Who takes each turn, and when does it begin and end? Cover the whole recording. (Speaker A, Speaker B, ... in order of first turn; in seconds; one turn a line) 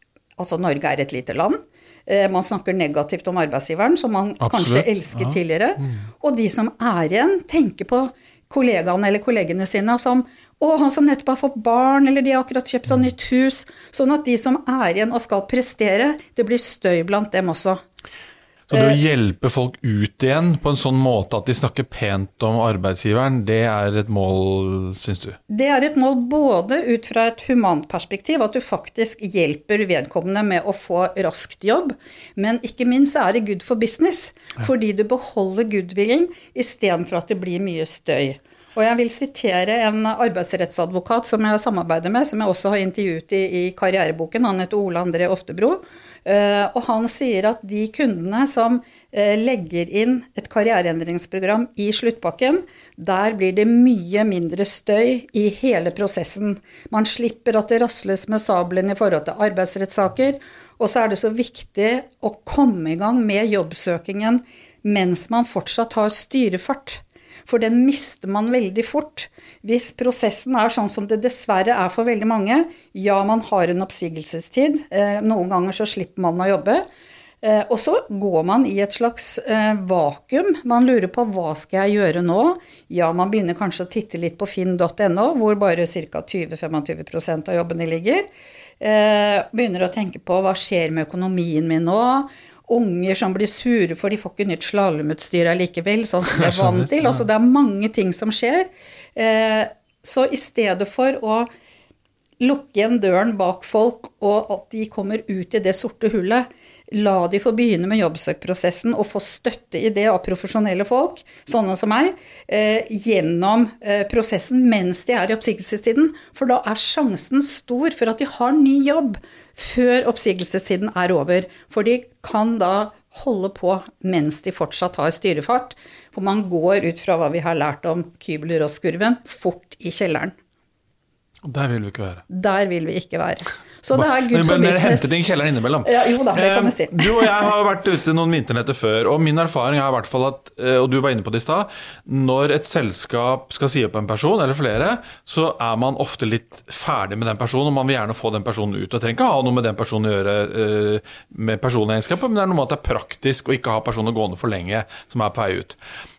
Speaker A: 0.4-17.8
Speaker B: 4.4-5.9
Speaker B: 18.7-25.4
Speaker A: 18.7-19.0
Speaker A: 25.5-76.8
Speaker A: 77.4-88.2
Speaker A: 88.8-101.5
Speaker B: 96.4-97.2
Speaker A: 102.4-130.3
Speaker B: 131.4-132.2
Speaker A: 132.3-135.1
Speaker B: 133.9-155.8
Speaker A: 135.8-137.5